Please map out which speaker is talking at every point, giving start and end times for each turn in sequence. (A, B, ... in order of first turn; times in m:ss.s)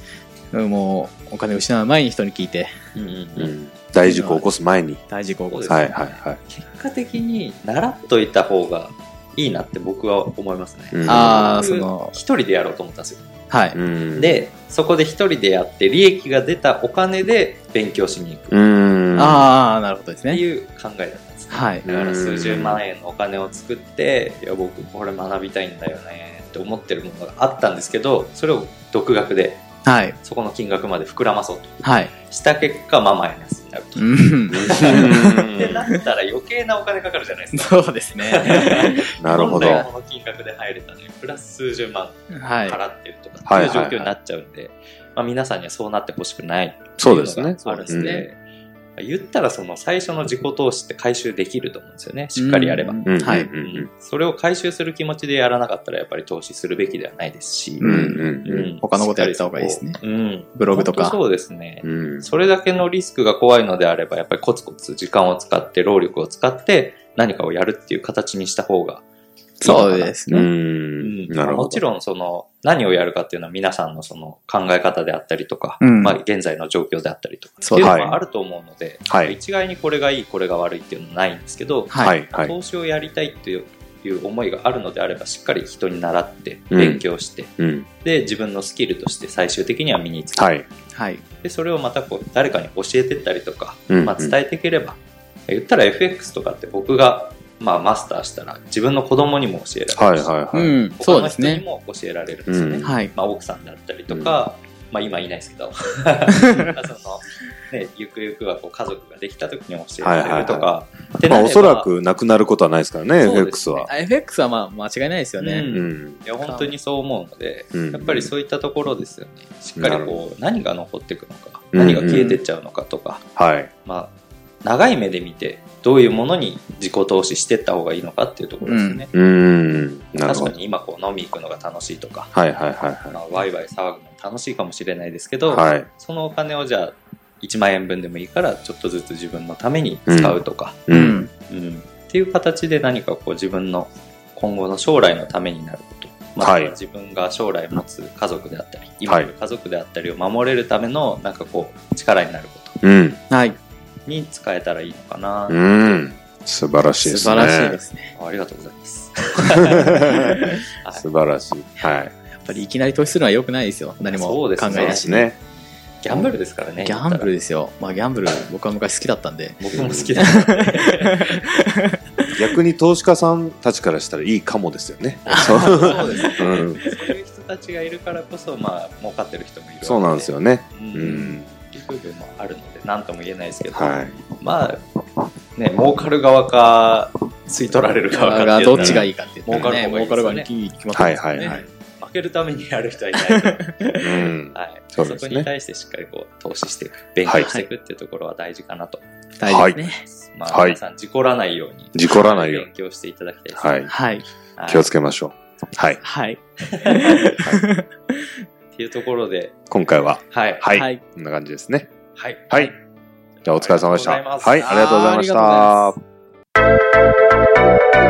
0:00.5-0:02.7 A
0:03.0-0:03.5 B
0:03.4-0:05.0 C
0:04.0-0:04.4 A
0:05.1-0:06.0 A
0:05.5-0:05.9 B
0:05.7-0:06.4 C
0:06.5-0:13.3 B
0:10.9-0:11.6 C
0:11.0-0:12.2 A
0:13.5-0:13.8 A
0:13.7-0:14.4 C
0:14.2-0:18.6 B
0:18.5-0:19.5 C
0:19.2-0:20.4 A
0:20.3-0:29.6 B
0:21.5-0:21.8 A
0:21.8-0:22.8 C
0:29.8-0:30.2 A
0:30.2-0:48.4 B
0:31.8-0:32.1 A
0:34.0-0:35.5 A
0:34.5-0:35.8 C
0:37.5-0:39.9 A
0:39.2-0:39.9 C
0:42.3-0:42.8 A
0:43.4-0:44.1 C
0:47.0-0:48.2 C
0:47.9-0:48.3 A
0:49.0-0:53.0 B
0:52.4-0:53.5 A
0:53.1-0:53.9 C
0:53.6-0:57.9 B
0:57.8-1:00.0 A
0:57.8-0:58.7 C
0:58.4-1:09.0 B
1:00.6-1:01.2 A
1:01.8-1:02.3 C
1:09.6-1:10.5 A
1:09.6-1:10.2 B
1:09.7-1:11.8 C
1:11.0-1:30.6 B
1:15.8-1:16.2 A
1:17.6-1:18.0 A
1:17.8-1:18.2 C
1:19.1-1:19.4 C
1:21.9-1:22.2 A
1:22.0-1:22.5 C
1:26.7-1:27.0 C
1:27.6-1:27.9 C
1:30.4-1:30.7 C
1:30.9-1:31.2 A
1:31.4-1:40.4 B
1:33.9-1:34.4 C
1:39.9-1:40.8 C
1:40.5-1:41.6 A
1:40.9-1:51.9 B
1:42.5-1:42.9 C
1:42.8-1:43.1 A
1:44.1-1:44.4 C
1:50.0-1:50.7 C
1:51.3-1:53.9 C
1:53.2-1:53.9 B
1:53.9-1:55.7 A
1:55.4-2:03.3 B
1:55.7-1:56.2 C
1:56.4-1:56.7 A
1:57.7-1:58.3 C
1:59.8-2:00.2 C
2:01.7-2:02.4 C
2:03.4-2:03.7 C
2:03.8-2:09.1 B
2:08.6-2:09.0 A
2:09.1-2:10.5 C
2:10.2-2:12.3 B
2:12.3-2:13.2 C
2:13.1-2:20.8 B
2:15.5-2:15.9 C
2:20.1-2:21.3 C
2:20.9-2:21.3 A
2:21.5-2:32.8 B
2:26.4-2:26.7 C
2:32.8-2:33.2 C
2:33.3-2:33.6 A
2:34.1-2:36.0 B
2:35.5-2:37.8 C
2:37.0-2:38.1 A
2:37.1-2:37.4 B
2:38.2-2:41.1 B
2:39.8-2:40.5 A
2:40.9-2:42.1 C
2:42.3-2:45.3 A
2:44.0-2:45.1 B
2:44.7-2:45.4 C
2:46.0-2:47.3 B
2:46.1-2:49.6 A
2:49.6-2:51.5 B
2:49.7-2:50.1 C
2:50.2-2:52.3 A
2:52.4-2:56.8 C
2:55.3-2:56.9 A
2:55.3-3:04.8 B
2:59.8-3:01.5 C
3:03.7-3:04.2 C
3:05.6-3:10.5 B
3:08.1-3:11.6 A
3:08.8-3:09.7 C
3:10.9-3:11.6 C
3:11.4-3:19.0 B
3:13.2-3:14.2 A
3:14.0-3:15.5 C
3:17.2-3:17.5 C
3:17.4-3:17.6 A
3:19.4-3:20.0 A
3:19.5-3:19.8 C
3:19.9-3:23.9 B
3:20.5-3:20.8 C
3:21.9-3:22.7 C
3:23.5-3:23.9 C
3:23.9-3:24.3 A
3:24.6-3:24.9 B
3:24.7-3:26.0 C
3:26.0-3:28.1 A
3:26.9-3:27.4 B
3:28.7-3:29.7 B
3:29.7-3:31.9 C
3:30.3-3:30.6 B
3:30.7-3:31.0 A
3:32.2-3:32.7 B
3:33.4-3:34.8 B
3:33.4-3:36.0 C
3:34.6-3:35.9 A